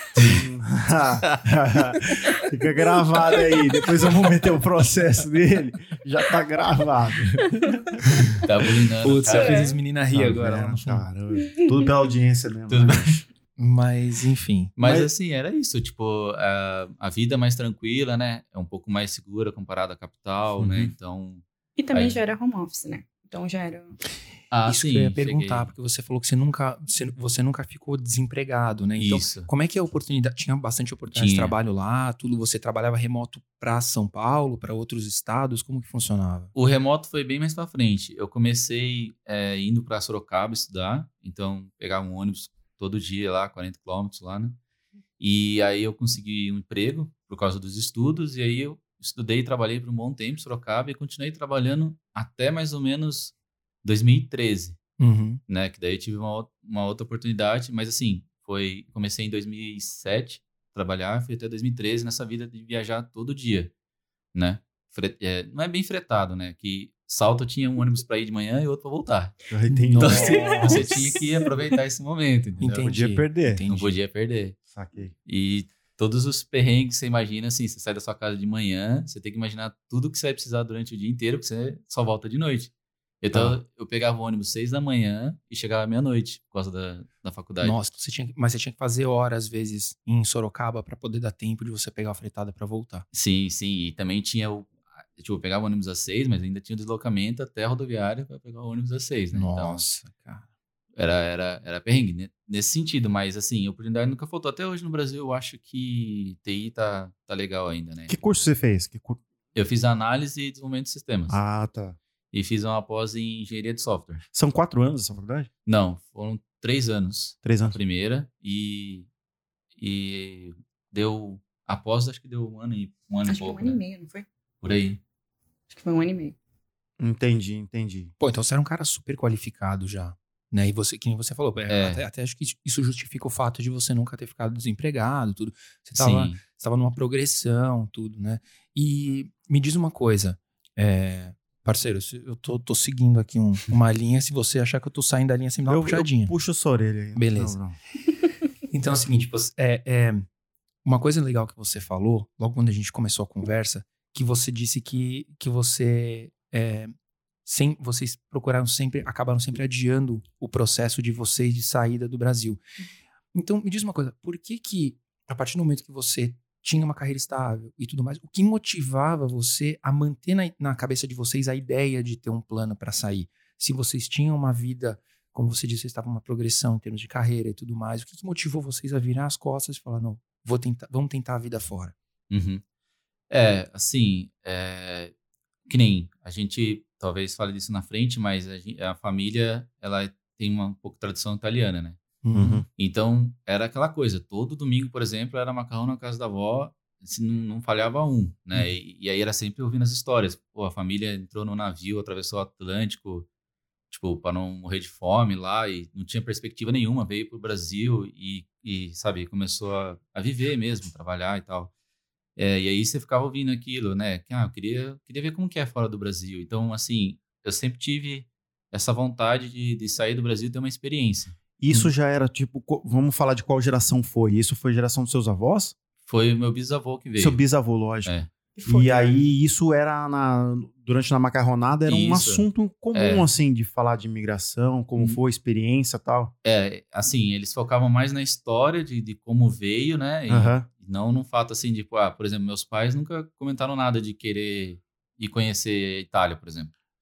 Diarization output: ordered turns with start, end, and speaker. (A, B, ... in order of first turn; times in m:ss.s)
0:00.2-0:00.5 A
0:00.3-0:08.4 B
0:08.4-0:09.7 A
0:09.0-0:11.1 C
0:09.3-0:09.8 D
0:10.1-0:13.2 B
0:12.7-0:13.2 A
0:13.6-0:14.7 C
0:14.8-0:22.2 A
0:14.8-0:15.1 B
0:20.6-0:20.9 B
0:21.8-0:24.0 D
0:24.5-0:25.7 A
0:24.6-0:36.5 C
0:29.0-0:29.5 A
0:31.1-0:31.5 A
0:36.6-0:44.6 A
0:45.2-0:54.8 A
0:55.0-0:55.4 C
0:55.5-1:03.7 A
1:04.3-1:09.4 A
1:09.5-1:11.1 B
1:09.7-1:11.0 C
1:10.0-1:12.9 A
1:10.3-1:11.2 D
1:12.6-1:14.0 C
1:12.8-1:13.6 B
1:13.7-1:14.6 A
1:14.7-1:15.1 B
1:15.3-1:27.8 A
1:23.3-1:23.6 C
1:27.6-1:33.0 C
1:33.1-1:39.8 A
1:39.3-1:40.4 C
1:41.0-1:48.2 A
1:48.1-1:49.2 B
1:49.6-1:51.4 A
1:51.3-1:52.0 B
1:52.3-1:54.2 A
1:54.3-1:55.5 B
1:55.7-1:59.1 A
1:57.4-1:57.8 B
1:59.8-2:03.8 A
2:03.3-2:04.3 D
2:04.6-2:05.0 A
2:05.7-2:06.4 D
2:07.0-2:08.1 B
2:08.2-2:26.3 C
2:11.7-2:12.0 A
2:16.0-2:16.4 A
2:25.7-2:27.8 B
2:27.2-2:27.6 C
2:28.7-2:30.3 C
2:30.8-2:42.6 C
2:43.3-3:01.9 C
3:02.3-3:02.6 A
3:03.3-3:05.1 A
3:05.7-3:12.0 A
3:12.2-3:12.6 C
3:12.4-3:12.7 B
3:12.8-3:23.3 A
3:23.9-3:31.7 A
3:32.4-3:41.4 A
3:41.6-3:45.8 B
3:46.1-3:47.4 A
3:47.2-3:48.1 B
3:48.6-3:49.1 D
3:48.7-3:56.3 B
3:51.9-3:53.2 A
3:56.4-4:06.7 A
4:00.3-4:00.7 B